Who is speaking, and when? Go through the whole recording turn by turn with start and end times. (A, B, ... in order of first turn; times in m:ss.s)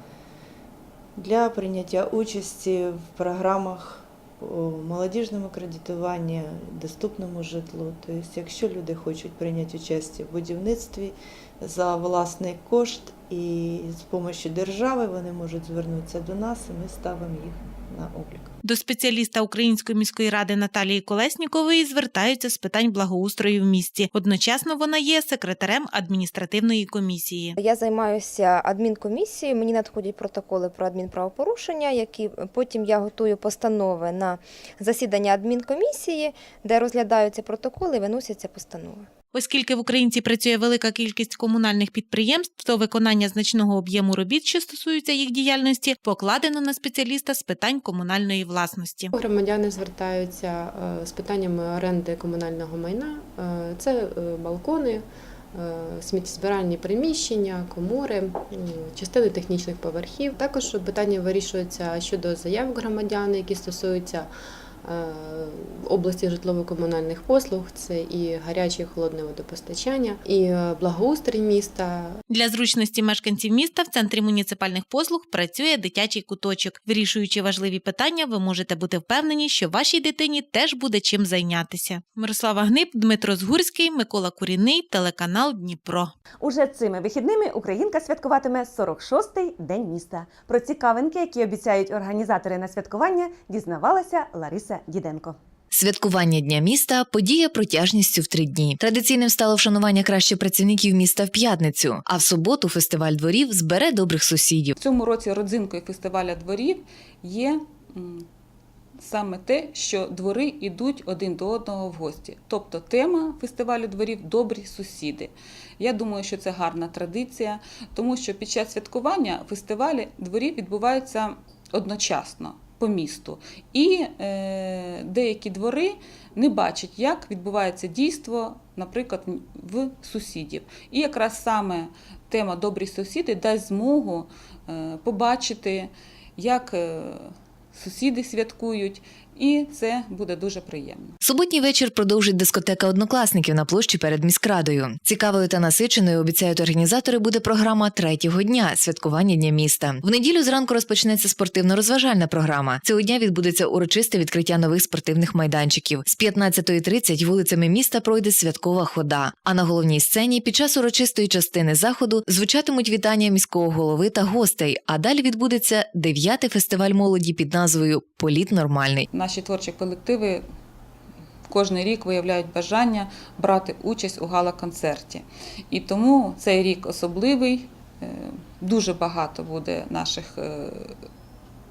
0:01.2-0:18.6 A
0:18.6-0:27.6 B
0:27.6-0:39.1 C
0:39.3-0:49.1 B
0:49.2-1:04.3 D
1:04.8-1:12.2 D
1:12.3-1:26.1 B
1:26.4-1:35.4 E
1:35.7-1:44.8 F
1:44.8-1:48.3 G
1:49.0-2:21.2 G
2:21.2-2:49.1 F
2:49.1-2:50.4 G
2:51.5-3:01.0 G